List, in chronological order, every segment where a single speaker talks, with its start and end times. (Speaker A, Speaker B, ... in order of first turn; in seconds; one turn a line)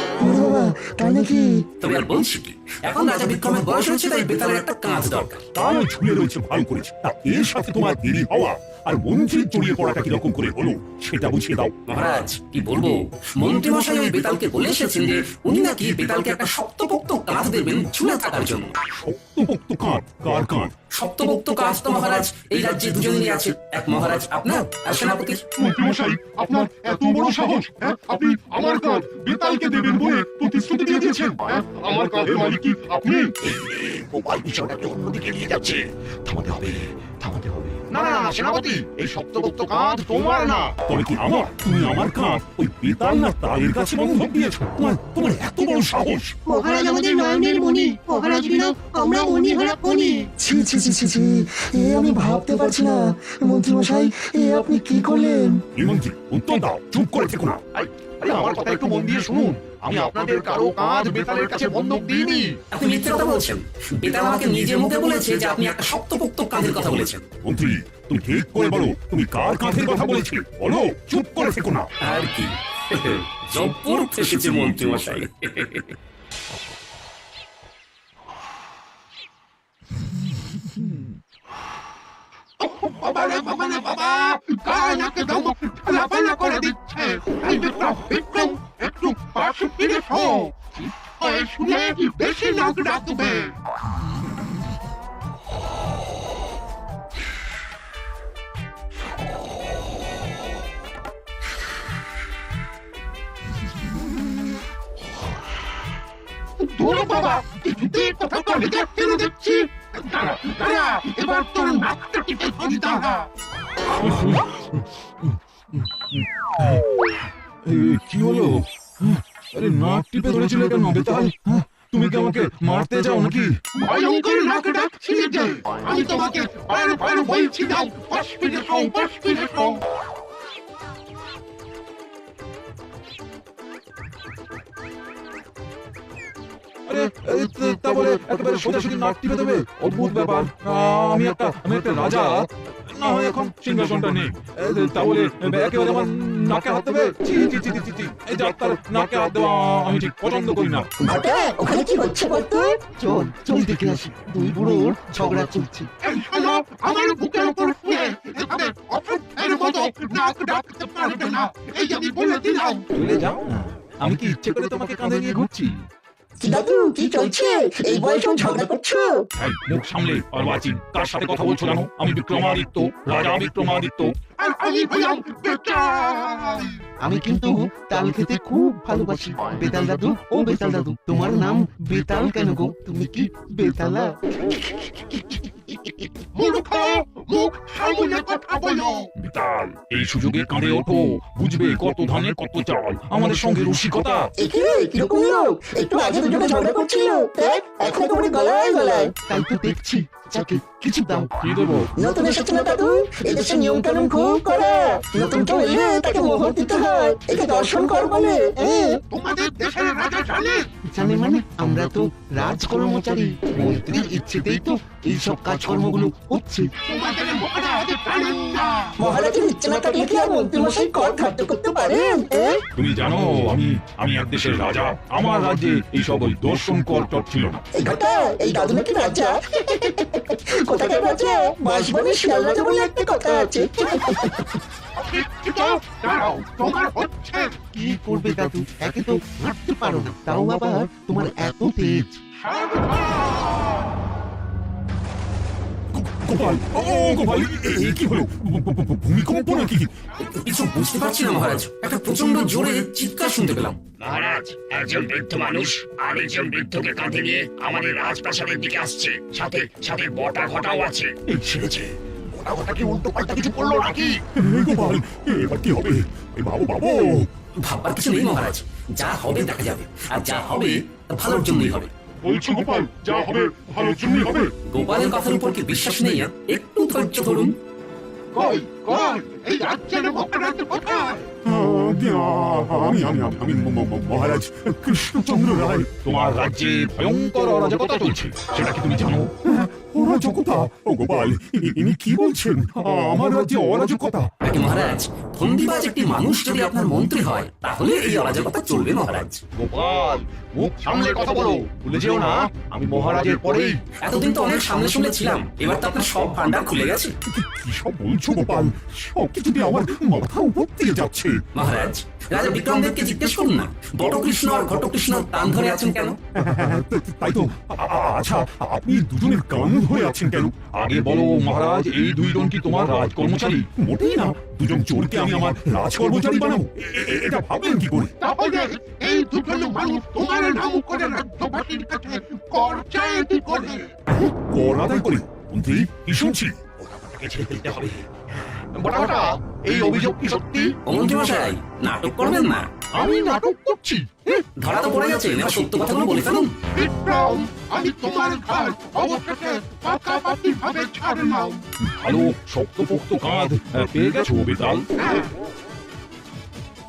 Speaker A: 0.2-1.7
Speaker B: 1.8-5.4
Speaker C: 5.5-11.8
Speaker B: 11.9-18.8
Speaker C: 18.9-20.8
Speaker B: 20.9-25.5
Speaker D: 25.6-31.1
Speaker C: 27.1-27.5
Speaker C: 29.4-31.4
Speaker E: 31.4-40.8
Speaker C: 40.9-46.3
Speaker F: 46.5-50.3
Speaker A: 50.4-55.6
Speaker C: 55.8-57.6
Speaker E: 57.8-62.6
Speaker B: 62.7-67.3
Speaker C: 67.4-71.9
Speaker B: 72.0-75.9
Speaker D: 82.6-93.6
Speaker D: 106.6-113.3
Speaker G: 113.9-114.7
Speaker G: 116.1-116.9
Speaker G: 117.6-123.6
Speaker D: 123.7-129.8
Speaker G: 136.9-150.9
Speaker A: 151.0-152.9
Speaker E: 153.0-155.9
Speaker D: 156.0-162.9
Speaker G: 162.9-165.9
Speaker A: 166.4-169.3
Speaker G: 169.4-174.1
Speaker D: 174.4-176.8
Speaker E: 177.0-184.2
Speaker D: 186.3-189.1
Speaker G: 189.2-194.3
Speaker A: 194.4-199.2
Speaker E: 199.3-201.3
Speaker G: 201.4-201.9
Speaker A: 201.9-209.0
Speaker D: 209.1-210.7
Speaker E: 210.9-216.7
Speaker D: 216.8-219.0
Speaker A: 219.0-222.6
Speaker G: 222.8-227.7
Speaker A: 227.7-234.5
Speaker D: 234.9-237.7
Speaker E: 237.7-242.2
Speaker D: 242.4-243.8
Speaker C: 245.9-249.9
Speaker B: 250.2-253.8
Speaker H: 254.0-261.2
Speaker E: 261.4-264.2
Speaker C: 264.4-267.3
Speaker B: 267.6-271.9
Speaker C: 272.2-274.5
Speaker B: 274.7-277.6
Speaker D: 278.3-281.3
Speaker C: 281.4-285.9
Speaker G: 286.0-289.4
Speaker C: 289.5-294.3
Speaker B: 294.4-299.4
Speaker E: 299.6-303.8
Speaker B: 304.0-307.1
Speaker C: 307.3-311.4
Speaker B: 311.6-316.2
Speaker C: 316.4-320.6
Speaker G: 320.8-323.7
Speaker C: 323.8-328.1
Speaker D: 328.2-334.0
Speaker C: 334.1-336.6
Speaker E: 336.9-338.0
Speaker E: 338.7-340.8
Speaker B: 340.9-342.7
Speaker E: 342.9-344.4
Speaker B: 344.6-346.5
Speaker D: 346.7-351.6
Speaker G: 351.8-354.9
Speaker D: 355.0-355.3